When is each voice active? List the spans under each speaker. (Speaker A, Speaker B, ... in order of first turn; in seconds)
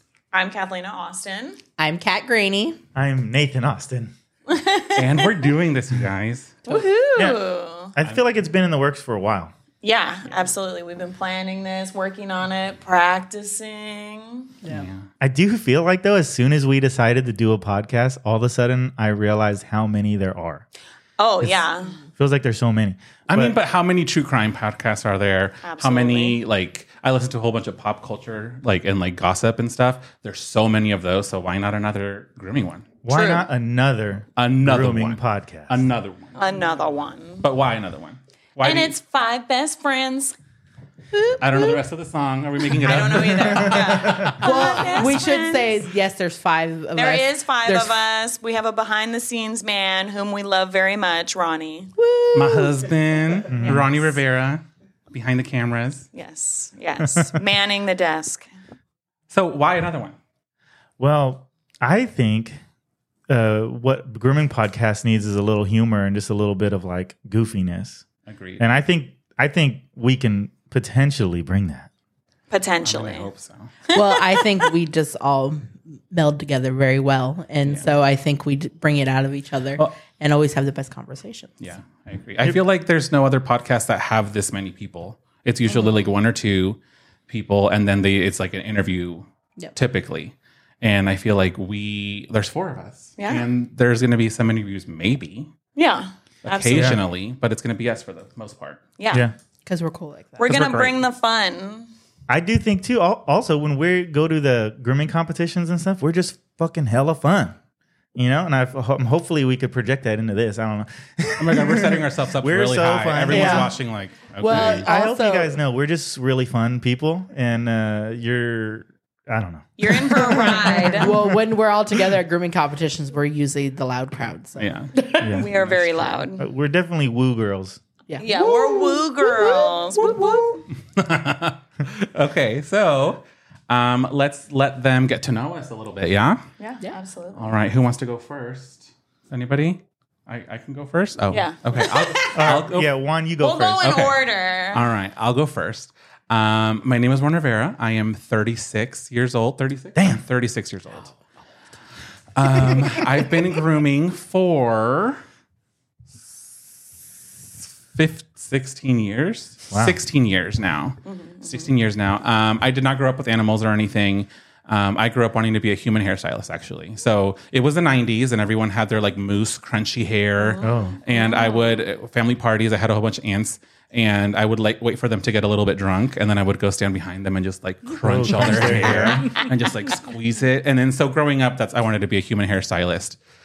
Speaker A: 0.3-1.6, 4.5-5.5, 6.7-7.9, 9.8-14.5, 21.2-22.0, 25.6-26.4, 33.1-33.5, 36.4-37.5, 38.6-40.4, 42.8-45.7, 47.0-51.9, 56.1-58.5, 72.5-73.3, 73.9-74.4, 85.7-86.1, 93.2-93.5, 95.8-97.0, 99.0-99.3, 100.4-101.9, 119.8-121.1, 125.3-126.5, 128.2-130.4, 136.6-137.5, 141.3-142.6, 143.4-144.8, 161.1-161.7, 170.4-171.9
Speaker B: 1.8-2.8, 14.6-14.9, 41.1-41.8, 44.4-48.0, 52.0-52.9, 73.9-81.6, 99.7-100.5, 113.3-113.8, 114.4-115.6, 120.3-125.4, 128.1-130.6, 178.5-179.4
Speaker C: 3.0-4.1, 7.2-7.4, 8.0-9.5, 15.2-20.6, 21.4-23.6, 33.0-35.9, 43.3-44.3, 53.5-54.0, 61.0-62.6, 63.3-68.0, 68.6-71.9, 96.7-97.0, 100.5-101.0, 102.3-107.6, 108.2-113.8, 114.5-121.2, 125.2-127.8, 142.3-143.9, 150.0-150.2, 159.7-160.0, 170.6-171.0, 178.0-179.3
Speaker D: 5.0-6.8, 14.7-15.0, 23.3-32.9, 34.4-36.5, 37.4-38.9, 41.4-45.1, 52.3-56.1, 59.3-60.2, 68.3-68.6, 72.8-73.7, 81.6-95.5, 96.5-98.8, 111.4-114.9, 124.6-126.0, 130.9-136.4, 137.3-142.9, 143.8-151.1, 152.4-155.2, 157.9-183.2